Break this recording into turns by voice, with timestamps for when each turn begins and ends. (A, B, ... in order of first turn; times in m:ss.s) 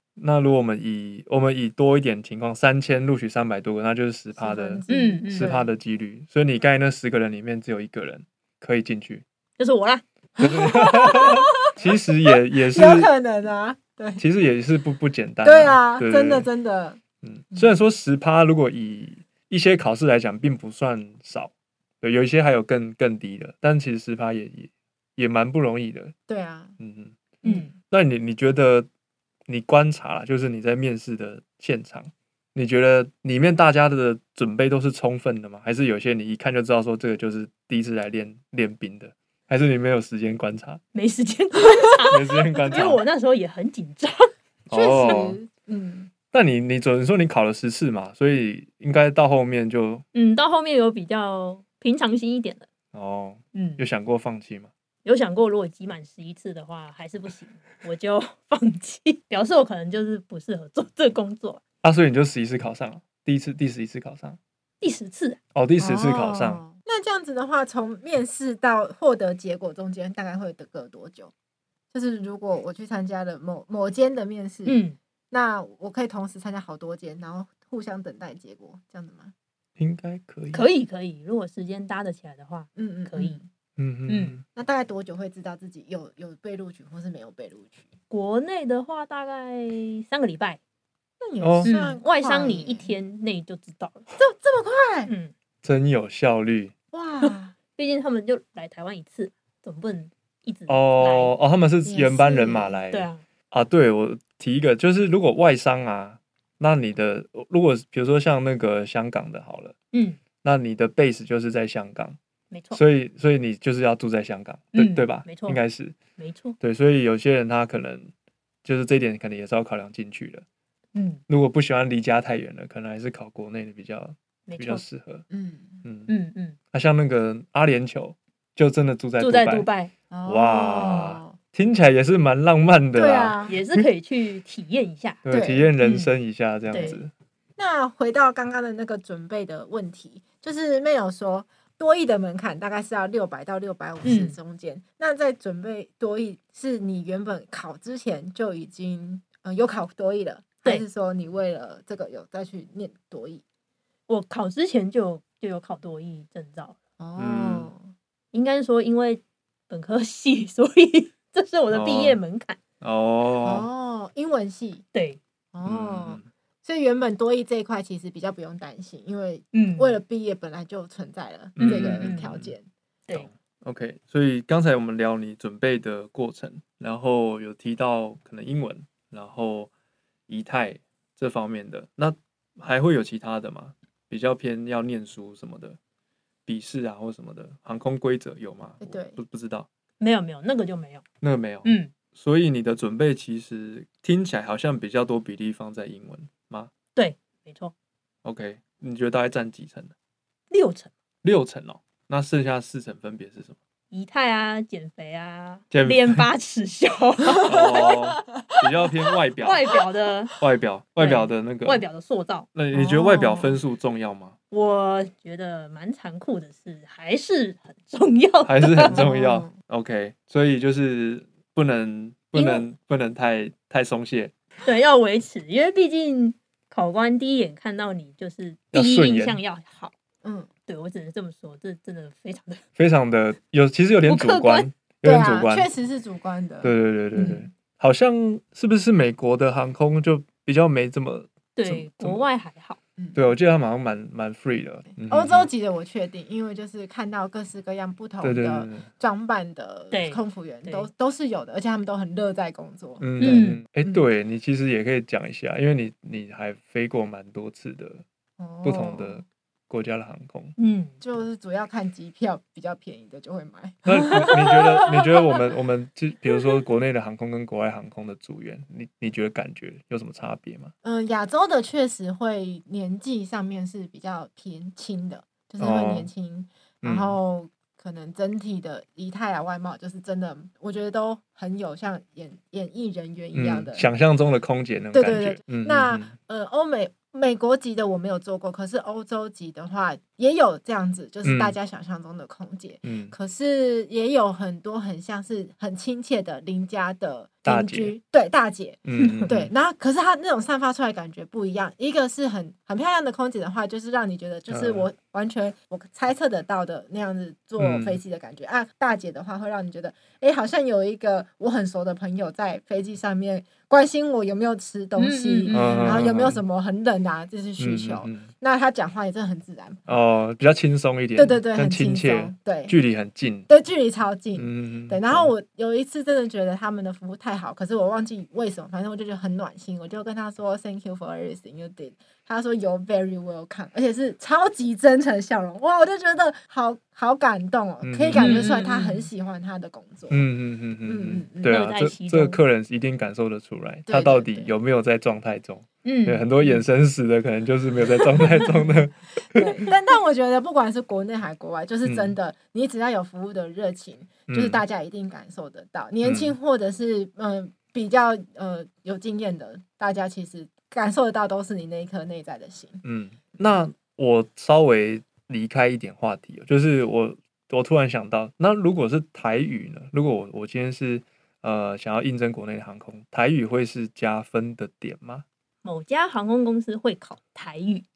0:00.2-0:09.2 A
0:04.4-0:05.7 B
0:04.9-0:05.6 C
0:09.6-0:10.0 C
0:10.4-0:14.2 B
0:10.4-0:13.1 A
0:14.2-0:16.5 A
0:15.4-0:17.0 B
0:17.2-0:26.2 A
0:26.3-0:26.8 B
0:26.8-0:28.9 A
0:27.4-0:27.7 C
0:27.4-0:27.7 B
0:29.5-0:40.8 A
0:40.9-0:44.3 C
0:42.1-0:43.0 A
0:42.6-0:42.8 B
0:44.7-0:45.4 A
0:44.7-0:46.1 B
0:46.3-0:50.0 A
0:50.1-0:52.7 C
0:52.9-0:54.7 A
0:53.5-0:53.8 C
0:55.0-1:01.6 C
1:01.8-1:04.4 A
1:04.8-1:05.4 C
1:05.6-1:06.6 A
1:05.8-1:11.3 B
1:11.9-1:14.8 B
1:14.6-1:15.0 C
1:15.3-1:19.3 B
1:19.8-1:20.7 A
1:20.5-1:23.4 C
1:22.8-1:23.5 B
1:23.8-1:24.4 A
1:24.1-1:24.4 C
1:24.5-1:27.9 B
1:28.1-1:30.6 C
1:31.2-1:32.9 B
1:31.4-1:31.7 A
1:31.6-1:34.1 C
1:34.2-1:35.1 B
1:35.1-1:35.3 C
1:35.6-1:36.7 A
1:36.9-1:37.6 B
1:37.2-1:41.3 C
1:40.7-1:49.7 A
1:41.8-1:42.8 B
1:42.9-1:43.2 C
1:49.9-1:50.2 C
1:50.4-1:52.2 A
1:52.5-1:52.8 C
1:52.7-1:56.0 A
1:54.7-1:55.6 C
1:56.2-1:56.6 C
1:56.6-1:58.1 A
1:58.6-2:00.4 A
2:00.9-2:01.2 C
2:01.3-2:05.2 A
2:04.5-2:04.8 C
2:05.3-2:05.8 B
2:05.8-2:06.1 A
2:06.1-2:06.6 C
2:06.7-2:09.7 A
2:09.2-2:09.9 C
2:10.1-2:11.4 B
2:10.2-2:13.8 A
2:13.0-2:13.6 B
2:13.5-2:15.2 C
2:15.2-2:17.1 A
2:15.3-2:15.7 B
2:15.8-2:16.1 C
2:16.7-2:17.0 C
2:17.6-2:33.4 B
2:24.0-2:24.4 C
2:34.1-2:36.8 C
2:37.0-2:37.9 B
2:37.2-2:37.7 A
2:38.3-2:42.6 C
2:41.7-2:42.2 A
2:42.8-2:43.7 A
2:43.4-2:44.8 B
2:44.9-2:45.2 C
2:45.5-2:52.7 B
2:45.6-2:46.3 A
2:49.5-2:50.0 C
2:51.6-2:52.5 A
2:51.6-2:52.4 C
2:53.1-2:59.7 A
3:00.3-3:05.8 A
3:06.5-3:09.7 A
3:08.8-3:09.2 B
3:10.0-3:11.0 C
3:11.2-3:16.7 A
3:11.6-3:11.9 C
3:17.0-3:17.7 C
3:18.2-3:19.9 A
3:20.5-3:20.9 C
3:21.2-3:23.6 A
3:23.9-3:27.9 C
3:25.7-3:26.3 A
3:27.4-3:29.7 A
3:27.4-3:28.0 B
3:29.4-3:30.3 C
3:30.4-3:31.8 A
3:31.0-3:32.5 C
3:32.5-3:34.4 A
3:32.7-3:33.6 B
3:34.5-3:39.0 C
3:38.4-3:44.3 A
3:38.9-3:39.6 B
3:42.4-3:42.7 C
3:44.6-3:49.9 C
3:48.7-3:49.4 A
3:50.2-3:50.5 B
3:50.7-3:52.6 C
3:52.8-3:55.7 A
3:54.1-3:54.7 C
3:55.0-3:57.5 B
3:56.6-4:02.3 A
4:01.6-4:02.8 C
4:03.2-4:05.5 A
4:05.0-4:14.0 B
4:08.2-4:08.9 A
4:09.9-4:10.9 C
4:13.0-4:18.0 A
4:13.2-4:13.6 C
4:18.4-4:19.2 B
4:18.6-4:20.6 A
4:20.6-4:20.9 C
4:21.0-4:25.1 B
4:23.8-4:30.7 A
4:30.8-4:43.9 B
4:35.6-4:36.1 A
4:36.8-4:37.2 A
4:43.3-4:46.1 A
4:44.9-5:19.8 B
4:51.2-4:51.6 A
4:52.8-4:53.1 A
4:57.4-4:58.0 A
4:58.8-4:59.5 A
4:59.0-4:59.3 C
5:04.5-5:04.9 A
5:07.6-5:08.0 A
5:15.0-5:16.1 C
5:15.5-5:16.4 A
5:17.6-5:18.3 A
5:19.9-5:23.5 A
5:21.2-5:22.8 B
5:23.5-5:40.2 B
5:24.4-5:25.3 A
5:37.8-5:38.5 A
5:38.2-5:39.1 C
5:40.1-5:49.6 A
5:40.8-5:41.6 B
5:41.4-5:42.4 C
5:43.9-5:44.5 B
5:45.8-5:46.2 C
5:48.2-5:48.8 B
5:49.4-6:02.8 B
5:51.8-5:52.1 A
5:54.3-5:54.6 A
5:56.0-5:56.4 A
6:02.8-6:15.2 A
6:15.6-6:17.9 C